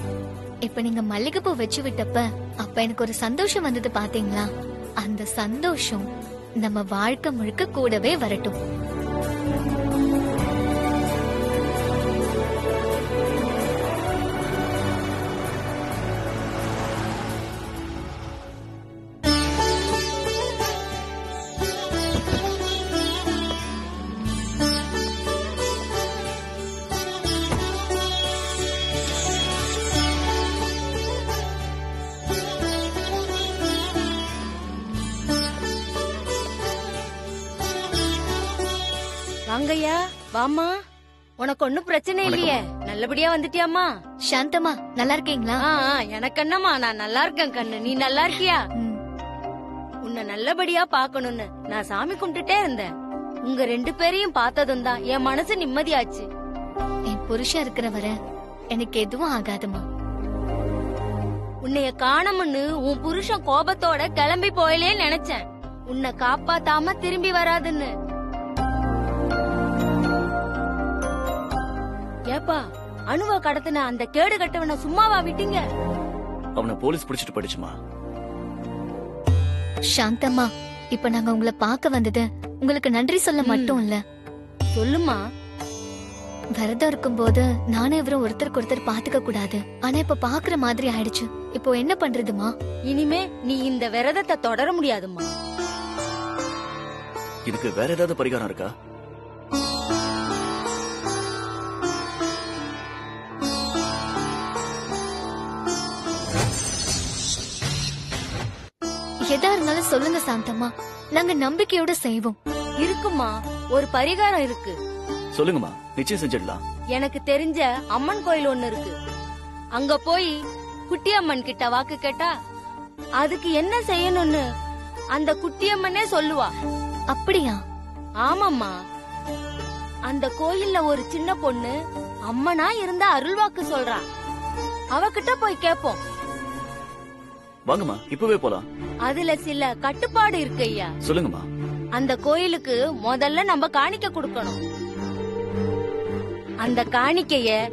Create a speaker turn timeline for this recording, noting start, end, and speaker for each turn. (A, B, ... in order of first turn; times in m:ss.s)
0:00.6-0:04.5 A
0:05.0-0:06.0 A
0:06.6-0:08.6 A
0:39.5-0:40.7 B
0:41.4-0:43.9 B
0:42.2-0:42.6 C
0:44.3-0:45.6 A
0:45.6-0:48.6 B
0:50.0-0:52.9 B
0:53.5-0:56.2 B
0:57.1-0:58.1 A
0:58.7-0:59.8 A
1:01.6-1:07.9 B
1:12.3-1:15.6 B
1:16.6-1:17.8 C
1:19.9-1:24.0 A
1:23.4-1:23.8 B
1:24.7-1:25.2 B
1:26.6-1:32.5 A
1:32.9-1:35.3 B
1:37.5-1:38.7 C
1:49.3-1:52.4 A
1:52.8-1:54.8 B
1:55.3-1:56.6 C
1:56.9-1:58.9 B
1:59.8-2:00.4 B
2:00.9-2:02.3 B
2:03.2-2:04.4 B
2:05.1-2:06.5 B
2:07.1-2:07.6 A
2:08.2-2:08.7 B
2:10.1-2:11.7 B
2:12.3-2:14.0 B
2:14.9-2:16.0 B
2:17.7-2:18.6 C
2:19.0-2:20.9 B
2:21.0-2:21.4 C
2:21.9-2:24.6 B
2:26.6-2:27.5 B